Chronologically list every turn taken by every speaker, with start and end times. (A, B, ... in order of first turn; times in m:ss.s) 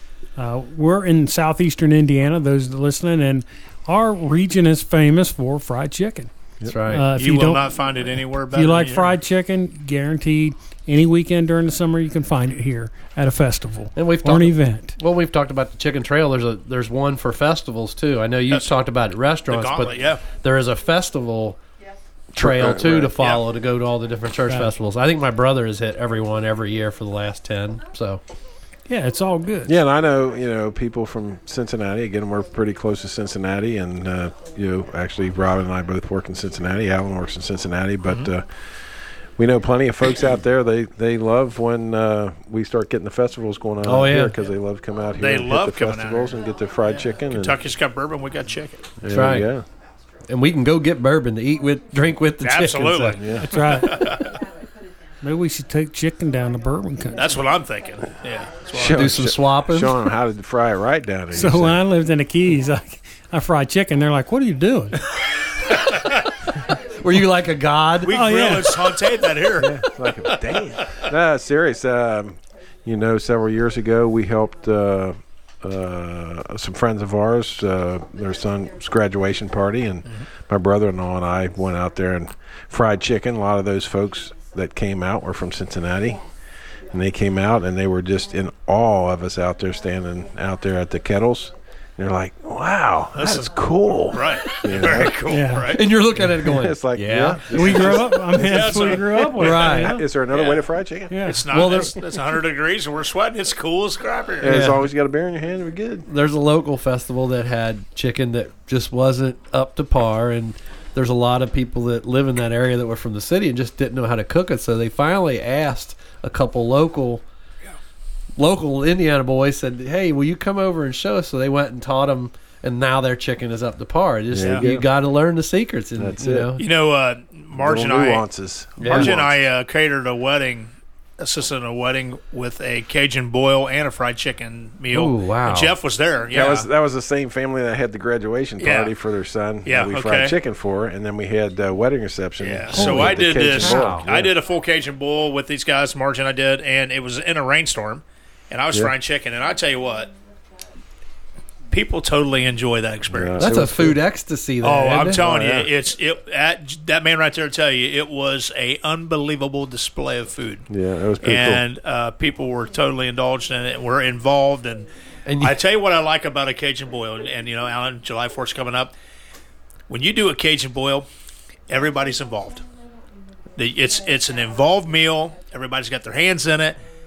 0:00.4-0:06.3 A
0:06.7-0:07.1 B
0:06.9-0:07.7 A
0:07.1-0:09.1 C
0:08.5-0:15.0 A
0:14.0-0:21.6 B
0:19.5-0:20.3 C
0:22.3-0:23.2 D
0:22.4-0:28.2 B
0:23.2-0:23.5 C
0:24.5-0:24.7 A
0:28.9-0:29.8 A
0:29.6-0:38.5 D
0:39.4-0:47.6 D
0:43.8-0:44.4 B
0:45.2-0:46.4 C
0:47.3-0:48.9 C
0:49.0-0:49.7 D
0:49.1-0:49.5 B
0:50.3-0:53.2 B
0:52.4-0:54.4 C
0:53.2-0:53.5 D
0:53.4-0:54.2 A
0:55.2-0:57.4 A
0:57.1-0:59.2 C
0:58.7-1:01.8 D
0:58.8-1:00.0 B
1:01.3-1:05.1 A
1:05.7-1:06.3 C
1:07.0-1:08.2 B
1:08.0-1:11.0 C
1:08.1-1:09.0 A
1:09.6-1:26.2 D
1:26.9-1:35.3 D
1:33.2-1:33.5 C
1:34.1-1:36.0 C
1:35.3-1:35.8 A
1:35.7-1:38.0 B
1:36.3-1:39.0 D
1:37.5-1:40.1 A
1:37.9-1:39.8 C
1:39.4-1:40.0 B
1:39.6-1:41.3 D
1:40.3-1:40.7 C
1:41.1-1:41.7 A
1:41.2-1:44.6 C
1:41.5-1:42.2 B
1:44.4-1:46.1 D
1:44.4-1:44.9 B
1:46.1-1:57.2 B
1:58.4-2:06.6 B
2:04.3-2:04.9 D
2:04.4-2:04.7 C
2:06.0-2:06.5 D
2:06.6-2:08.3 C
2:07.5-2:09.3 D
2:08.8-2:09.2 B
2:08.8-2:16.7 C
2:14.9-2:15.8 B
2:16.3-2:24.3 D
2:18.6-2:18.9 C
2:19.6-2:20.4 C
2:22.4-2:30.1 C
2:22.7-2:24.1 B
2:31.7-2:33.7 C
2:33.1-2:34.0 D
2:33.4-2:35.2 B
2:34.6-2:40.7 C
2:35.2-2:35.7 D
2:40.7-2:41.6 D
2:41.2-2:44.9 C
2:45.3-2:45.6 B
2:45.4-2:48.9 C
2:49.9-2:51.1 C
2:51.7-2:52.6 C
2:53.6-2:56.8 C